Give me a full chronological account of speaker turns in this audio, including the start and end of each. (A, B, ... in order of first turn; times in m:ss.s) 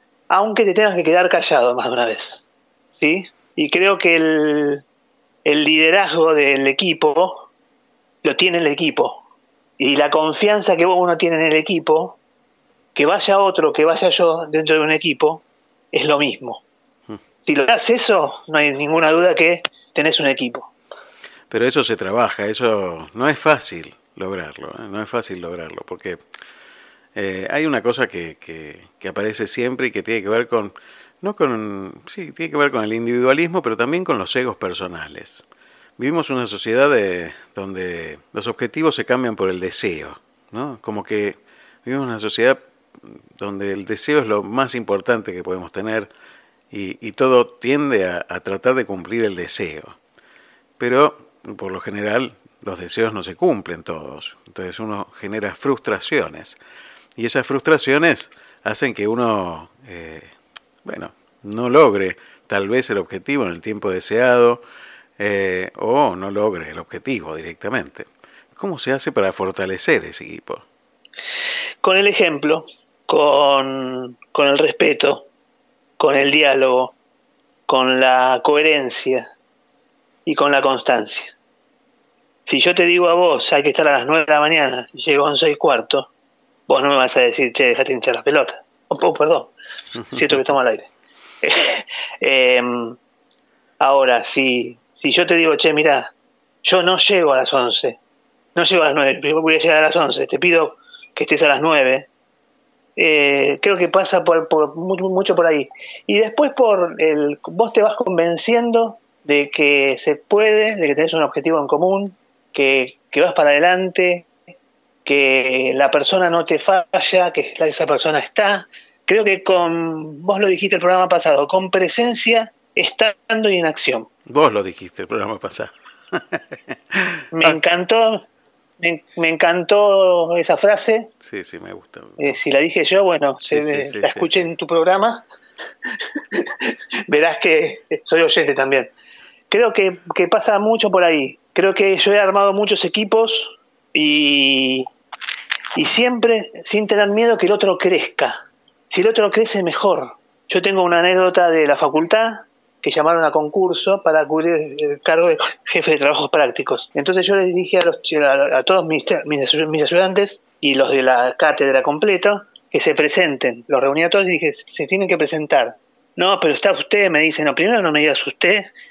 0:00.3-0:02.4 A
0:03.0-0:04.8 A
0:05.4-0:07.5 A
0:08.2-0:09.2 A
0:09.8-0:12.2 A
0:13.0-0:16.6 A
0:17.5-0:20.7 A
0:21.5-0:26.2 B
0:27.2-0:35.4 B
0:36.0-0:46.1 B
0:46.7-0:50.0 B
0:50.8-0:56.6 B
0:57.2-1:00.3 B
1:00.8-1:04.6 B
1:05.2-1:10.6 B
1:11.8-1:15.3 A
1:16.0-1:16.9 A
1:17.7-1:19.3 A
1:20.3-1:21.3 A
1:22.5-1:26.1 A
1:26.7-1:29.5 A
1:30.0-1:30.4 B
1:30.1-1:30.9 A
1:31.4-1:33.0 A
1:33.8-1:36.1 A
1:36.6-1:38.0 A
1:38.6-1:42.1 A
1:43.0-1:54.3 A
1:55.0-2:04.1 A
2:04.3-2:07.6 B
2:07.3-2:08.2 A
2:08.8-2:11.1 A
2:11.2-2:12.4 B
2:12.2-2:15.2 A
2:13.4-2:14.5 B
2:16.4-2:18.9 A
2:19.5-2:24.9 A
2:25.8-2:48.7 A